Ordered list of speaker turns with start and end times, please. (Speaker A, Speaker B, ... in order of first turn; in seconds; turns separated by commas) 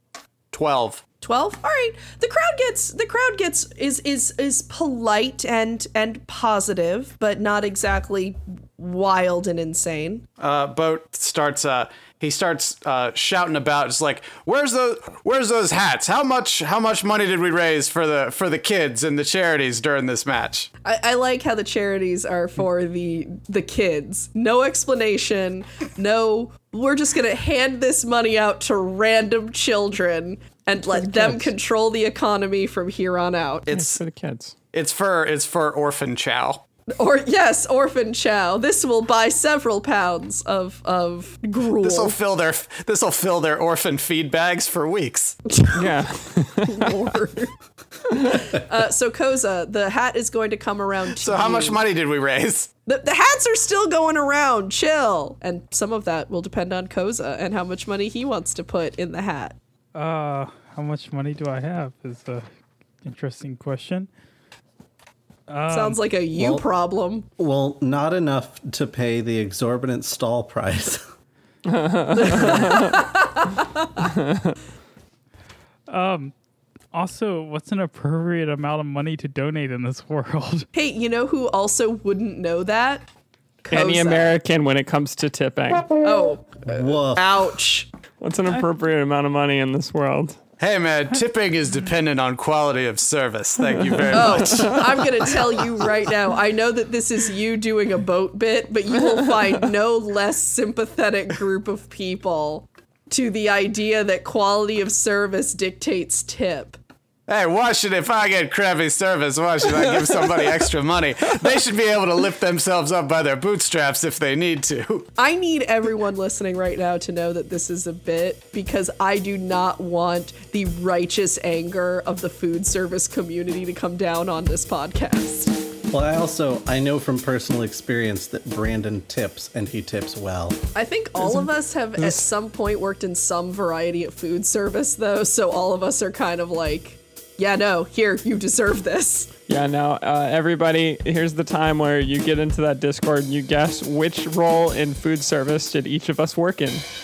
Speaker A: 0.5-1.0, Speaker B: 1.2-10.2, Speaker A: 10.4-20.7, Speaker B: 20.8-33.7, Speaker C: 30.9-31.5, Speaker A: 33.7-34.0, Speaker C: 33.7-34.5, Speaker A: 34.7-36.6, Speaker B: 37.0-42.1, Speaker A: 41.8-45.4, Speaker B: 45.5-45.9, Speaker C: 45.7-47.0, Speaker B: 46.6-47.5, Speaker B: 48.1-51.8, Speaker A: 51.2-52.7, Speaker B: 52.9-59.6, Speaker D: 59.9-62.5, Speaker D: 63.0-64.1, Speaker D: 65.5-66.0, Speaker B: 65.7-67.2, Speaker E: 66.3-66.7, Speaker E: 67.4-71.0, Speaker C: 71.7-73.0, Speaker B: 72.2-73.9, Speaker C: 74.0-74.6, Speaker D: 75.9-76.3, Speaker D: 76.9-80.7, Speaker B: 80.7-83.1, Speaker B: 83.6-84.3, Speaker C: 83.7-85.9, Speaker B: 86.0-87.9, Speaker E: 86.7-87.5, Speaker C: 88.2-90.4, Speaker A: 90.6-94.8, Speaker C: 93.9-94.7, Speaker B: 94.1-106.8, Speaker A: 107.3-115.1, Speaker B: 115.2-125.5, Speaker E: 125.9-130.6, Speaker B: 130.7-139.3, Speaker C: 139.5-146.8